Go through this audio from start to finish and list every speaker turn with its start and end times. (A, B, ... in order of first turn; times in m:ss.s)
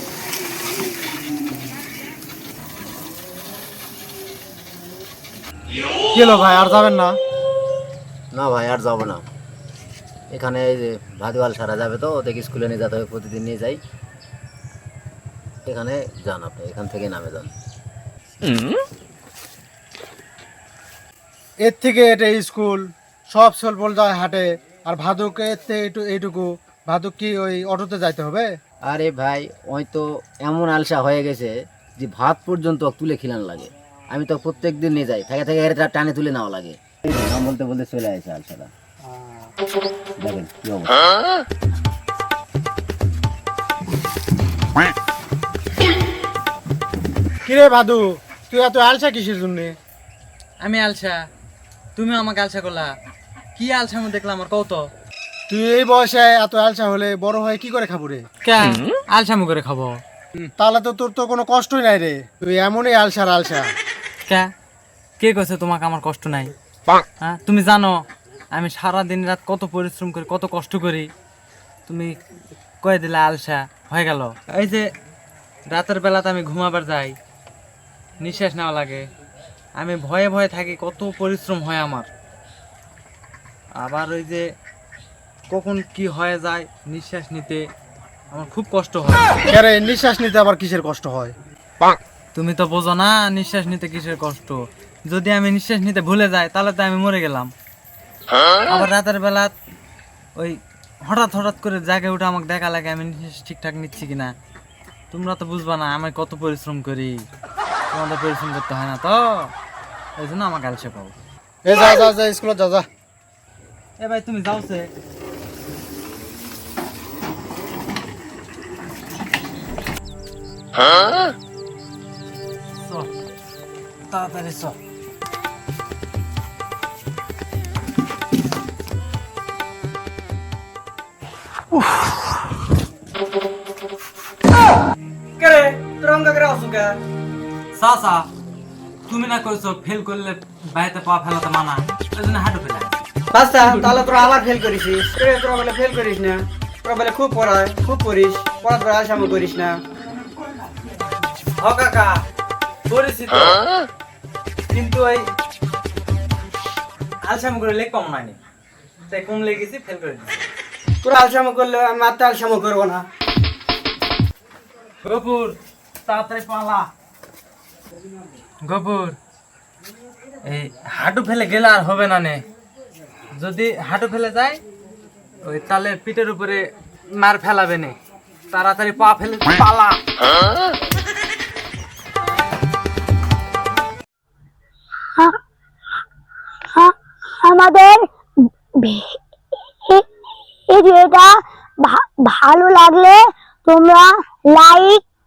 0:06.1-0:07.2 A
0:08.3-0:09.2 B
0:10.3-0:13.8 B
0:15.6-0:17.5 B
0:21.6-0:28.5 A
0:28.8-0:38.7 B
0:40.2-0:41.1 B
0:47.4-0:49.8 A
0:50.6-0:51.2 C
0:52.0-0:52.9 C
0:53.6-0:54.8 C
0:55.5-0:58.2 A
0:58.4-1:00.0 C
1:00.4-1:03.7 A
1:05.2-1:06.5 C
1:07.2-1:11.1 C
1:11.9-1:12.2 C
1:12.8-1:14.9 C
1:15.7-1:17.2 C
1:18.2-1:19.1 C
1:19.8-1:22.1 C
1:23.8-1:24.5 C
1:25.5-1:27.6 C
1:28.3-1:29.3 C
1:29.5-1:31.3 A
1:32.3-1:37.5 C
1:38.7-1:39.5 C
1:40.4-1:44.3 C
1:45.1-1:47.2 C
1:47.9-1:49.5 C
1:50.2-1:51.1 C
1:51.6-1:52.8 A
1:54.0-1:54.9 C
2:02.8-2:03.1 C
2:04.1-2:04.8 C
2:15.4-2:17.0 D
2:17.7-2:18.2 C
2:19.1-2:23.0 C
2:23.3-2:29.8 D
2:31.6-2:32.2 C
2:32.9-2:33.6 C
2:34.7-2:35.2 C
2:37.2-2:38.4 C
2:39.1-2:40.3 C
2:41.0-2:43.0 D
2:45.0-2:46.9 C
2:48.6-2:49.2 C
2:50.4-2:52.4 C
2:53.4-2:54.6 C
2:55.4-2:56.6 C
2:57.2-2:57.9 C
2:58.5-3:00.0 C
3:06.7-3:09.2 E
3:10.7-3:15.0 E